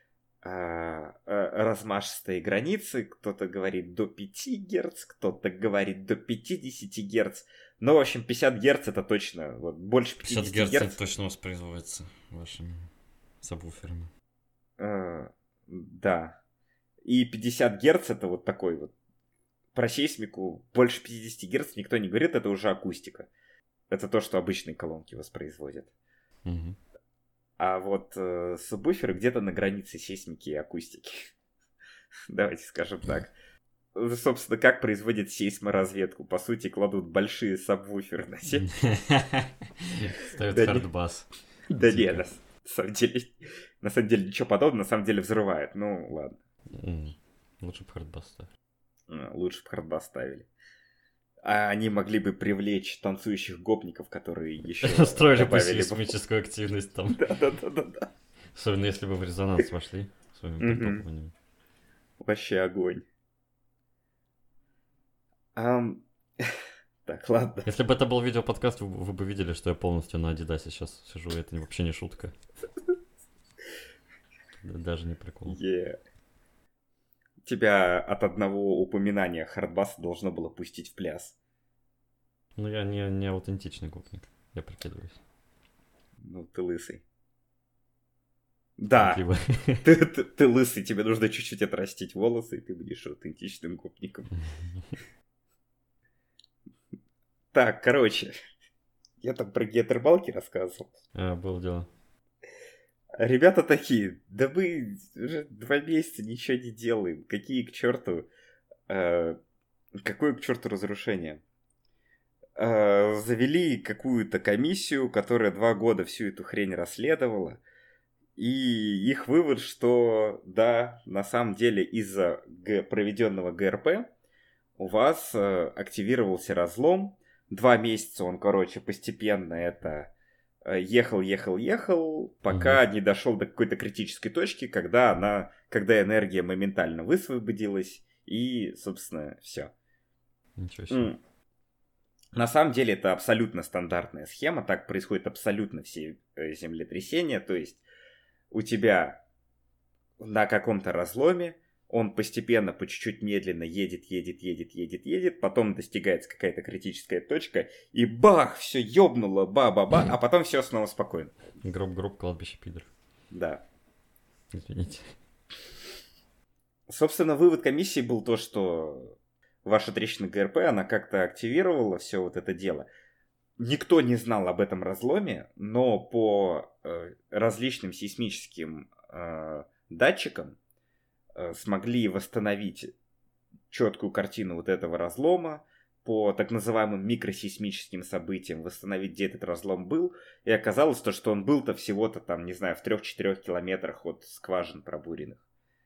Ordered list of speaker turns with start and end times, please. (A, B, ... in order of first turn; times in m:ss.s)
0:00.4-0:11.0 A
0:10.2-0:14.1 B
0:14.8-0:16.4 A
0:17.0-0:18.9 A
0:19.7-0:23.3 A
0:23.9-0:25.9 A
0:26.4-0:26.8 B
0:27.6-0:31.3 A
0:32.3-0:33.3 A
0:33.9-0:38.8 A
0:38.6-0:42.2 B
0:40.5-0:40.9 A
0:41.7-0:46.4 A
0:46.7-0:48.5 B
0:49.1-0:50.5 A
0:51.4-0:56.1 A
0:54.8-0:57.2 B
0:57.1-0:58.1 A
0:58.5-1:01.3 B
1:00.6-1:01.0 A
1:02.2-1:03.0 A
1:05.6-1:07.7 A
1:07.6-1:12.3 B
1:14.6-1:15.6 B
1:15.5-1:16.0 A
1:17.4-1:21.4 A
1:22.6-1:25.2 B
1:26.2-1:27.0 A
1:28.8-1:29.2 A
1:29.0-1:29.8 B
1:29.8-1:34.3 A
1:34.3-1:34.8 B
1:37.5-1:38.3 A
1:39.2-1:40.9 A
1:41.1-1:41.9 B
1:43.2-1:48.3 A
1:48.9-1:49.4 A
1:50.0-1:51.4 A
1:52.6-1:57.6 A
1:58.4-2:04.1 A
2:04.8-2:10.1 A
2:10.6-2:19.7 A
2:12.5-2:12.8 B
2:20.6-2:21.1 B
2:20.9-2:21.2 A
2:22.3-2:27.8 A
2:28.5-2:29.2 A
2:30.2-2:41.3 A
2:41.6-2:42.9 B
2:43.3-2:43.6 A
2:44.5-2:45.2 B
2:46.9-2:52.9 A
2:53.6-3:00.6 A
3:01.4-3:02.9 A
3:03.7-3:15.4 A